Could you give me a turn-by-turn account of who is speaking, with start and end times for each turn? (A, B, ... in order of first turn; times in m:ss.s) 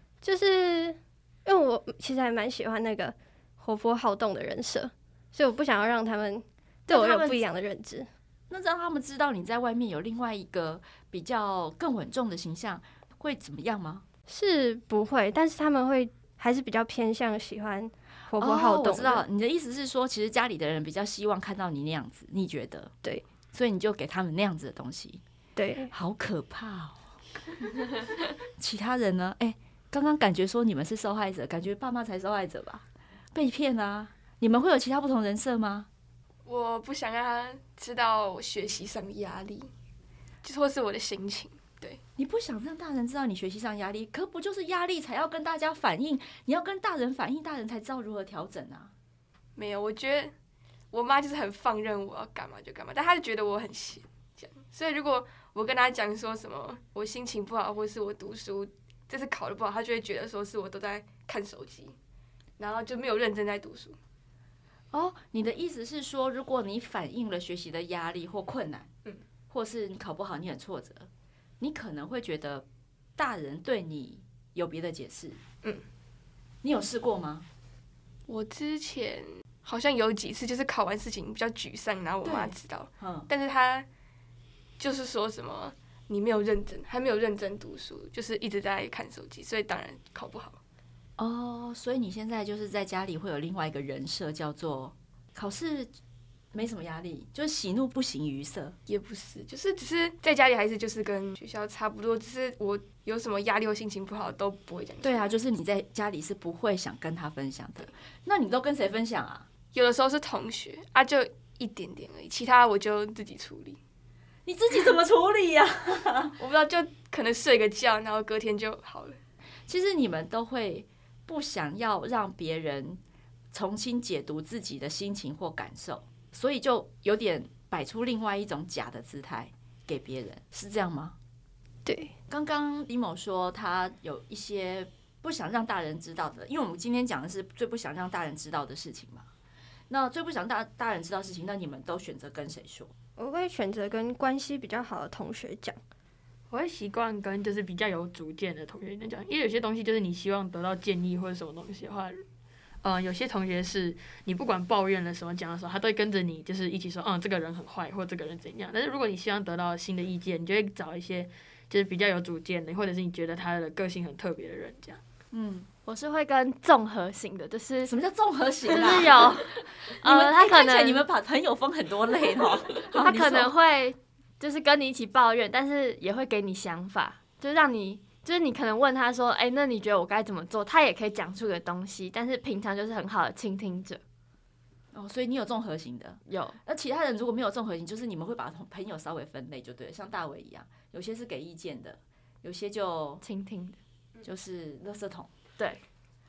0:00.2-0:08.1 A
0:06.9-0:07.4 B
0:08.5-0:14.0 B
0:14.3-0:19.2 A
0:18.4-0:22.9 B
0:23.5-0:25.2 B
0:25.6-0:25.9 A
0:25.9-0:27.0 B
0:28.6-0:35.9 B
0:36.4-0:39.7 C
0:40.4-0:42.0 C
0:42.2-0:48.9 B
0:49.6-0:50.3 C
0:50.9-1:02.0 C
1:02.6-1:04.0 C
1:04.9-1:08.9 B
1:09.5-1:11.1 B
1:11.6-1:12.6 B
1:13.2-1:15.4 B
1:16.6-1:17.4 B
1:18.3-1:23.9 C
1:22.2-1:23.3 B
1:24.8-1:30.6 C
1:31.2-1:35.9 B
1:36.5-1:38.7 B
1:38.9-1:45.3 C
1:45.0-1:49.5 B
1:49.7-1:53.8 C
1:54.4-1:56.3 B
1:56.4-1:59.2 C
1:59.7-2:03.0 B
2:03.5-2:11.1 B
2:11.8-2:12.1 A
2:12.3-2:19.2 B
2:19.9-2:22.9 B
2:23.2-2:25.8 A
2:26.5-2:32.2 D
2:32.8-2:45.0 D
2:45.3-2:45.7 B
2:45.8-2:47.9 E
2:47.8-2:49.3 B
2:48.7-2:51.0 E
2:50.0-2:53.5 B
2:53.0-3:04.0 E
3:04.9-3:13.2 B
3:06.3-3:06.6 E
3:13.2-3:13.8 E
3:14.2-3:15.3 B